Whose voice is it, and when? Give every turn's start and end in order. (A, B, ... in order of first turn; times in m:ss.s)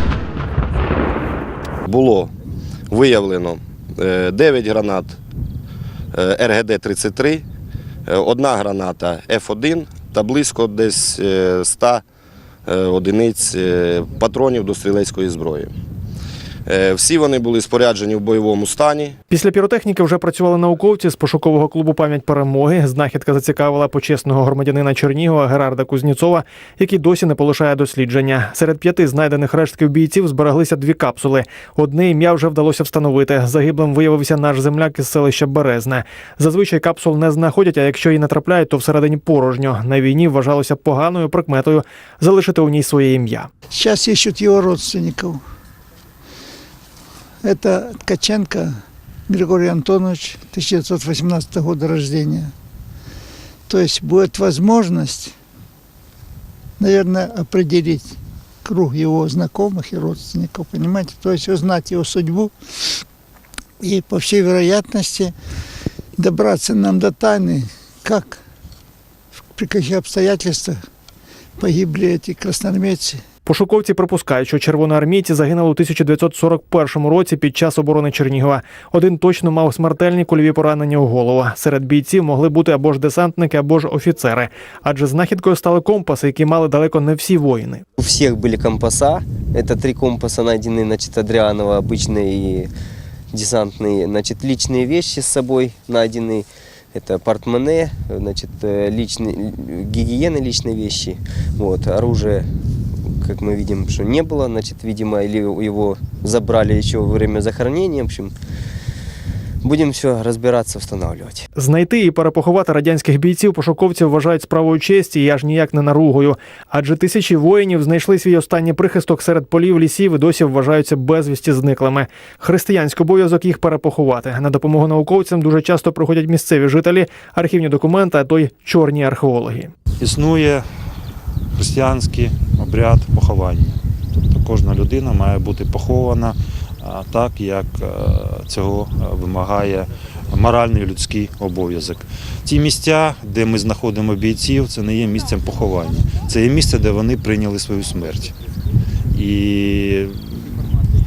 0:01.8-0:02.3 A
0:02.9-0:05.2 A
0:06.1-0:07.4 A
0:08.1-0:12.0 A
0:12.6-0:15.7 A
0:16.6-0:19.1 A
0:19.3-0:43.5 B
0:43.7-0:45.4 C
0:47.4-0:48.8 C
0:49.3-0:52.5 C
0:53.7-0:55.3 C
0:56.8-1:02.5 C
1:03.8-1:05.3 C
1:06.2-1:08.4 C
1:09.5-1:10.8 C
1:11.6-1:13.2 C
1:13.4-1:27.8 B
1:28.0-1:32.7 D
1:33.3-1:42.5 D
1:43.1-1:48.3 D
1:49.6-1:51.4 D
1:51.6-2:09.7 B
2:10.0-2:10.6 E
2:11.5-2:28.4 E
2:29.1-2:30.7 E